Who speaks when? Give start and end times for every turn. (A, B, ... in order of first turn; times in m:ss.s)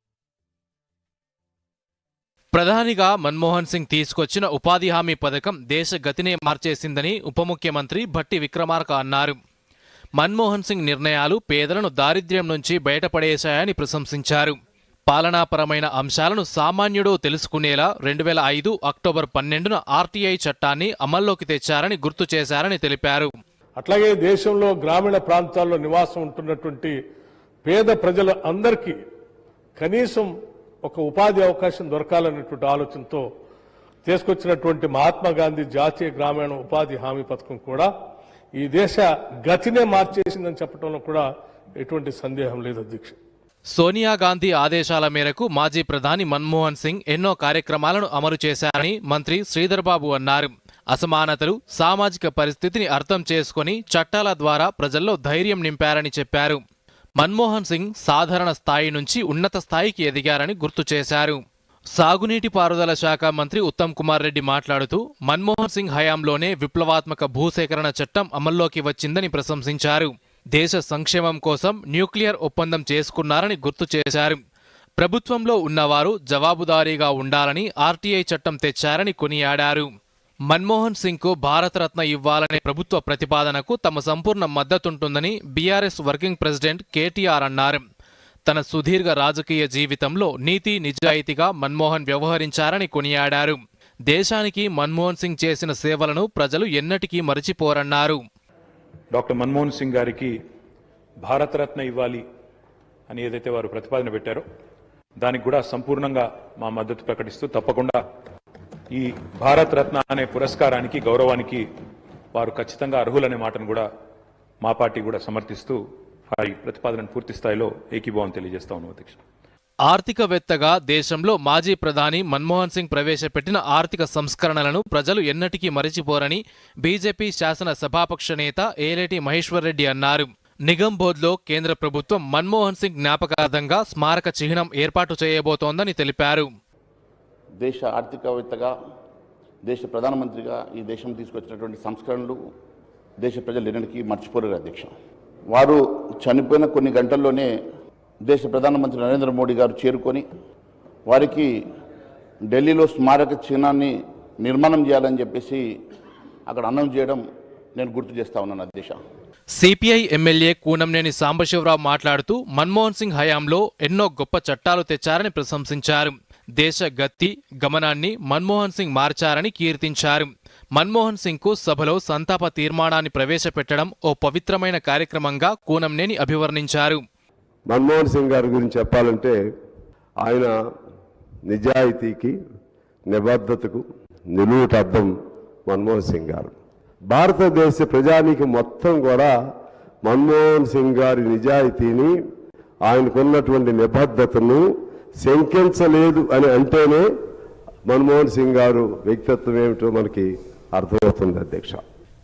0:02.5-0:09.4 A
0:10.2-0:23.4 A
0:23.8-0:27.0 B
0:27.6-0:29.0 B
0:29.8-0:30.3 B
0:30.8-0:33.3 B
0:34.0-0:37.9 B
0:38.5-0:41.2 B
0:41.8-0:43.2 B
0:43.7-0:56.6 A
0:57.2-1:01.4 A
1:01.9-1:14.4 A
1:15.0-1:19.9 A
1:20.5-1:27.8 A
1:28.5-1:38.2 A
1:39.1-1:40.4 C
1:41.2-1:42.2 C
1:43.1-1:44.4 C
1:45.2-1:48.0 C
1:48.9-1:51.6 C
1:52.4-1:53.9 C
1:54.6-1:55.8 C
1:56.3-1:59.2 C
1:59.9-2:16.5 A
2:17.6-2:18.7 D
2:19.6-2:22.4 D
2:23.2-2:24.9 D
2:25.5-2:27.5 D
2:28.2-2:30.2 D
2:31.1-2:31.5 D
2:32.5-2:35.6 D
2:36.5-2:37.2 D
2:37.8-2:39.0 D
2:39.5-2:57.0 A
2:57.7-2:59.4 E
3:00.2-3:00.5 E
3:01.5-3:02.4 E
3:03.1-3:05.1 E
3:05.7-3:06.5 E
3:07.1-3:09.3 E
3:10.0-3:12.1 E
3:12.8-3:14.6 E
3:15.2-3:17.0 E
3:17.9-3:21.8 E